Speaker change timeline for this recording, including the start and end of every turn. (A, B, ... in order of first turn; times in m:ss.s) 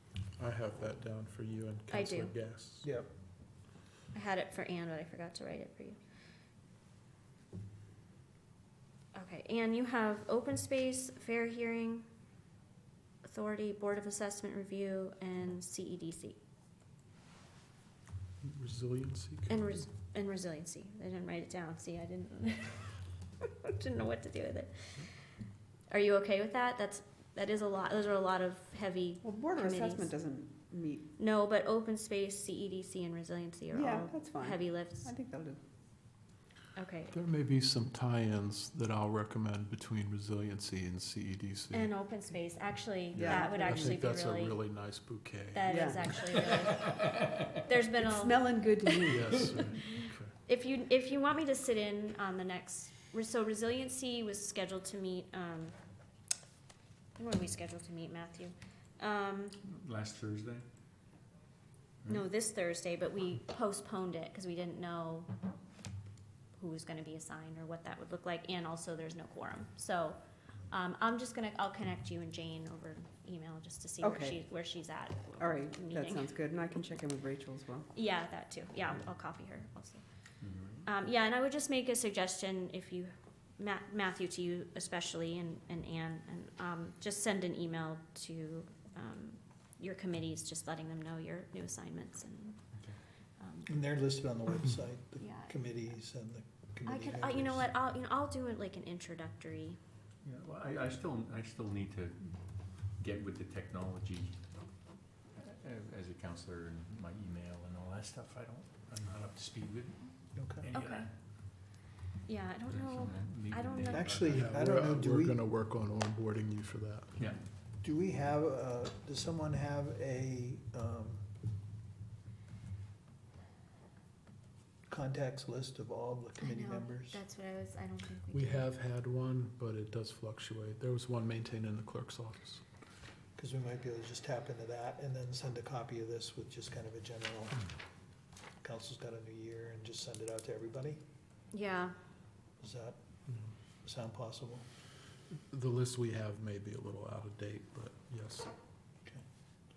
0:00.4-0:02.9 A
0:01.9-0:02.3 B
0:02.8-0:03.1 C
0:04.1-0:06.0 B
0:09.1-0:12.1 B
0:13.2-0:16.4 B
0:18.4-0:19.6 A
0:19.5-0:25.1 B
0:25.9-0:30.1 B
0:29.2-0:31.1 D
0:31.2-0:35.1 B
0:33.7-0:35.6 D
0:36.8-0:37.1 B
0:37.1-0:41.9 A
0:41.7-0:44.6 B
0:43.1-0:43.9 D
0:43.1-0:45.7 A
0:45.5-0:48.4 B
0:45.6-0:46.7 D
0:47.9-0:49.8 D
0:49.1-0:50.3 A
0:50.4-0:55.8 B
0:57.2-0:59.6 B
0:59.6-1:00.6 E
1:02.0-1:05.3 B
1:06.6-1:10.2 B
1:10.7-1:16.3 B
1:14.0-1:14.4 D
1:15.4-1:17.9 D
1:17.9-1:20.0 B
1:20.4-1:20.8 E
1:20.8-1:32.6 B
1:33.4-1:33.7 B
1:33.7-1:37.7 C
1:35.2-1:35.5 B
1:36.8-1:39.8 B
1:40.2-1:42.4 E
1:42.9-1:44.4 E
1:45.4-1:51.1 E
1:50.3-1:50.7 C
1:50.7-1:51.1 B
1:52.2-1:54.1 B
1:52.7-1:54.7 E
1:53.9-1:55.4 C
1:54.3-1:57.1 A
1:57.8-2:01.2 C
2:04.9-2:07.2 C
2:06.4-2:08.7 B
2:08.3-2:12.6 A
2:13.4-2:17.7 C
2:18.6-2:21.0 C
2:21.5-2:21.9 B
2:22.6-2:23.0 C
2:23.8-2:24.6 C
2:25.3-2:28.5 A